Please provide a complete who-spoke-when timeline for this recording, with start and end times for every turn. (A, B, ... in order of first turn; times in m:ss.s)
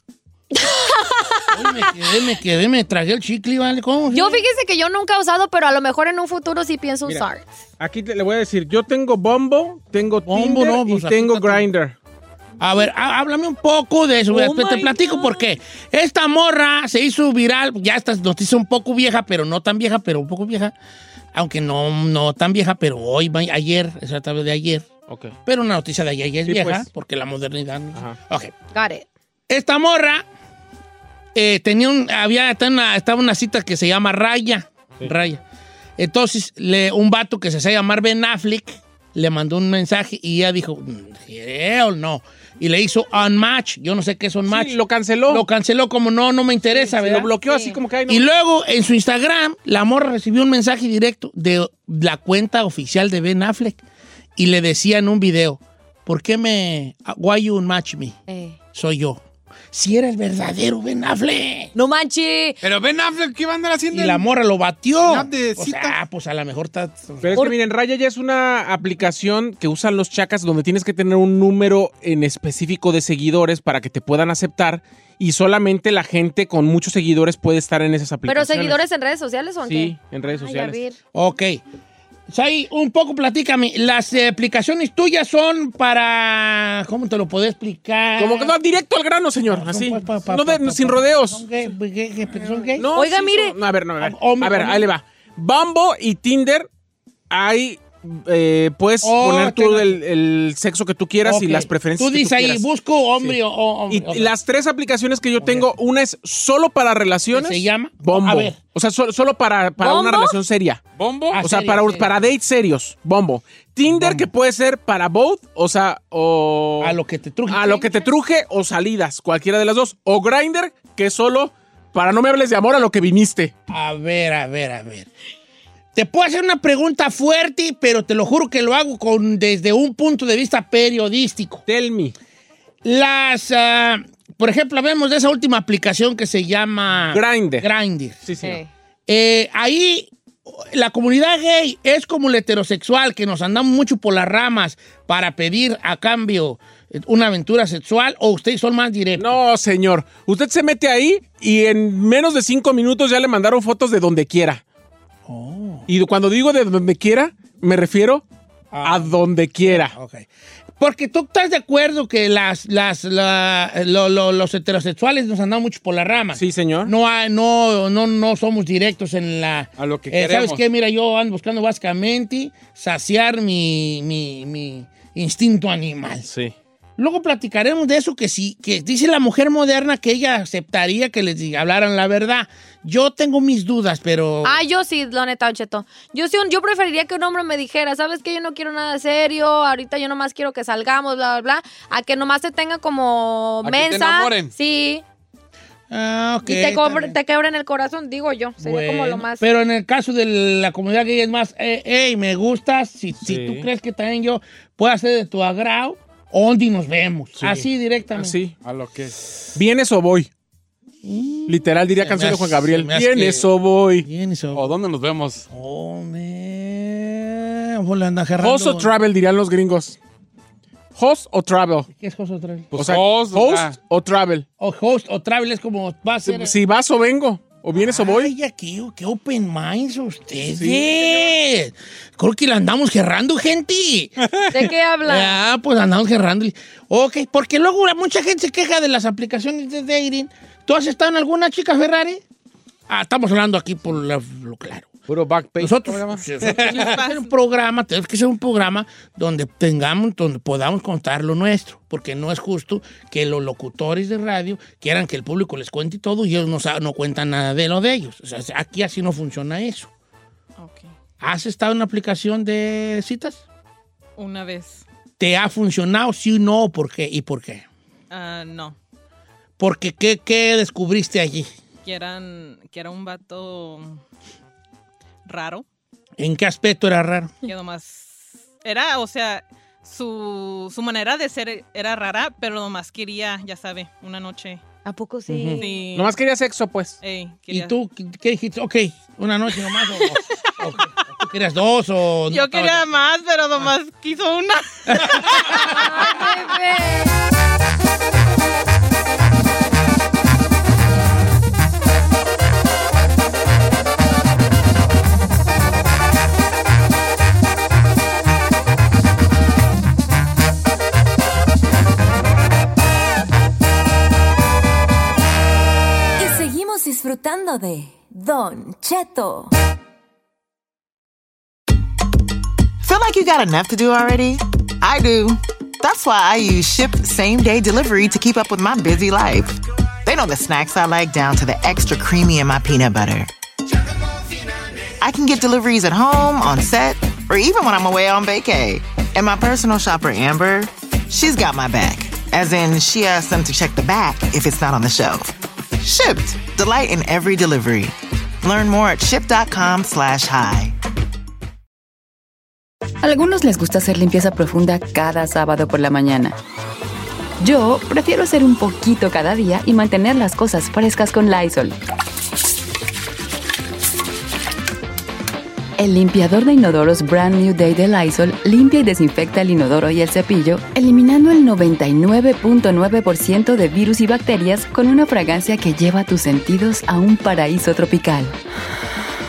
0:01.5-0:04.4 A
0:04.1-0:07.4 B
0:07.8-0:12.0 C
0:10.3-0:11.7 A
0:12.6-0:20.8 A
0:14.3-0:15.5 B
0:21.3-0:24.9 A
0:25.1-0:25.4 C
0:25.4-0:28.6 A
0:26.5-0:26.9 C
0:28.7-0:29.0 B
0:29.5-0:30.2 A
0:31.4-0:35.4 A
0:36.0-0:47.4 A
0:44.5-0:45.4 C
0:46.7-0:48.3 C
0:47.4-0:47.8 B
0:48.0-0:53.8 A
0:54.4-0:58.2 A
0:58.3-0:58.6 B
0:58.7-0:59.2 A
0:59.7-1:01.7 A
1:01.7-1:02.6 B
1:02.6-1:04.2 D
1:03.9-1:07.4 A
1:05.0-1:06.0 D
1:07.2-1:18.8 C
1:18.3-1:21.0 B
1:19.6-1:20.8 C
1:21.1-1:21.6 A
1:22.3-1:28.5 A
1:28.2-1:31.4 C
1:29.5-1:32.9 A
1:32.8-1:36.7 C
1:32.9-1:33.6 B
1:34.0-1:34.9 A
1:37.3-1:42.6 C
1:39.0-1:40.0 A
1:41.2-1:44.3 A
1:43.9-1:50.8 C
1:45.4-1:45.7 A
1:47.3-1:48.6 A
1:49.8-1:50.4 B
1:51.0-1:51.4 D
1:51.3-1:52.1 A
1:51.4-1:57.0 C
1:53.9-1:54.3 A
1:56.8-1:57.9 A
1:57.5-2:03.5 C
2:03.7-2:05.1 A
2:05.9-2:11.6 A
2:11.7-2:12.1 C
2:12.8-2:18.2 A
2:17.1-2:17.7 C
2:18.2-2:18.6 C
2:18.4-2:18.7 B
2:19.1-2:29.4 A
2:29.2-2:34.6 C
2:35.3-2:35.9 A
2:35.9-2:38.2 C
2:38.7-2:40.3 A
2:38.8-2:39.9 C
2:40.8-2:56.3 A
2:46.4-2:46.9 C
2:49.8-2:50.6 D
2:57.0-3:04.6 A
3:04.4-3:15.0 B
3:13.6-3:14.5 D
3:15.9-3:17.2 A
3:16.4-3:19.5 B
3:18.6-3:28.4 A
3:23.2-3:23.7 C
3:27.4-3:28.5 C
3:28.6-3:29.2 D
3:29.5-3:30.3 C
3:31.0-3:33.5 A
3:31.5-3:34.1 C
3:34.0-3:34.7 A
3:34.5-3:35.5 D
3:35.5-3:38.9 A
3:38.4-3:40.0 C
3:41.0-3:41.9 C
3:41.9-3:42.7 A
3:42.7-3:43.8 D
3:42.8-3:44.5 C
3:44.6-3:46.6 A
3:46.2-3:48.3 C
3:47.8-4:02.2 A
3:50.6-3:51.3 C
3:54.5-3:55.4 B
4:02.9-4:04.9 A
4:05.1-4:06.2 C
4:05.6-4:19.9 A
4:06.4-4:06.8 D
4:06.6-4:07.3 E
4:20.6-4:20.9 E
4:21.2-4:23.4 A
4:24.2-4:24.8 E
4:25.2-4:27.6 A
4:28.1-4:28.8 E
4:29.6-4:31.5 A
4:31.8-4:34.0 E
4:35.2-4:35.6 E
4:36.2-4:37.4 A
4:37.4-4:44.6 E
4:44.8-4:45.8 B
4:45.3-4:45.6 A
4:45.6-4:46.1 E
4:45.9-4:47.0 C
4:47.0-4:47.8 E
4:47.5-4:53.0 A
4:52.3-4:55.1 E
4:54.9-4:55.2 A
4:55.6-4:57.2 B
5:16.2-5:19.5 F
5:22.8-5:33.3 G
5:35.0-5:50.8 G
5:53.0-5:56.4 H
5:57.4-6:01.8 H
6:05.8-6:18.4 H